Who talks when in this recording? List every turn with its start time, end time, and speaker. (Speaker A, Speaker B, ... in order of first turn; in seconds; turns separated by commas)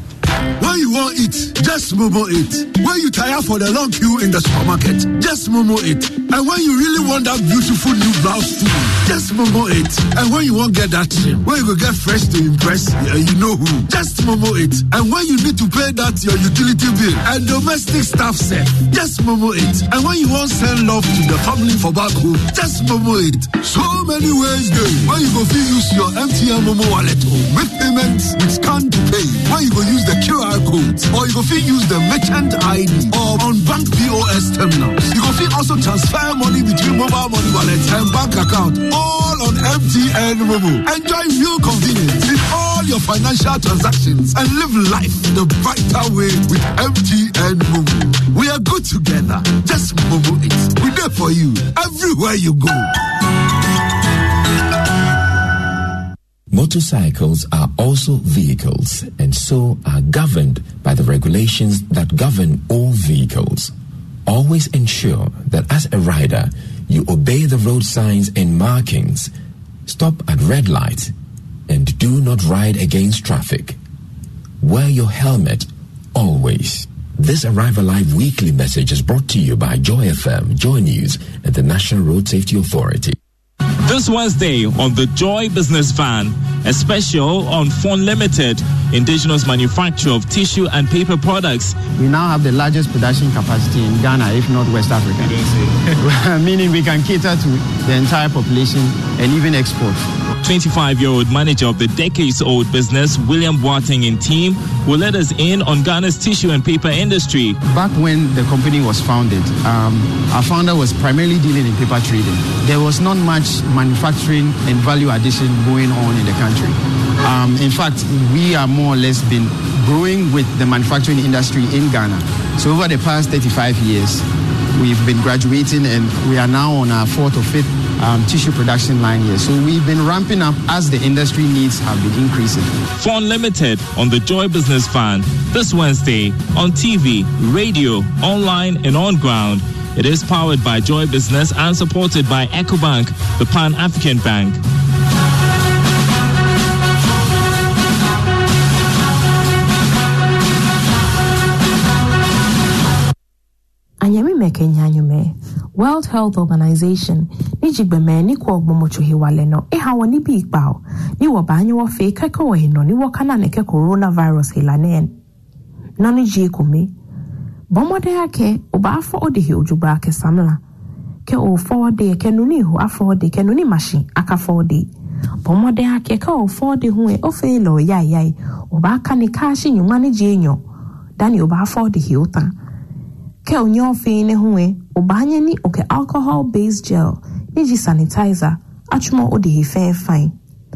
Speaker A: 0.6-52.9, Speaker B: 56.5-63.7, Speaker B: 64.2-69.3, Speaker B: 69.9-71.1, Speaker B: 71.7-73.8, Speaker B: 74.6-83.2, Speaker C: 83.8-91.8, Speaker D: 92.0-95.3, Speaker D: 96.0-100.0, Speaker C: 100.4-107.6, Speaker D: 107.7-124.2, Speaker D: 124.8-132.7, Speaker C: 133.0-144.6, Speaker E: 154.0-165.1, Speaker E: 166.0-166.9, Speaker E: 167.7-170.6, Speaker E: 171.2-174.9, Speaker E: 175.4-180.6, Speaker E: 181.2-182.5, Speaker E: 183.4-190.3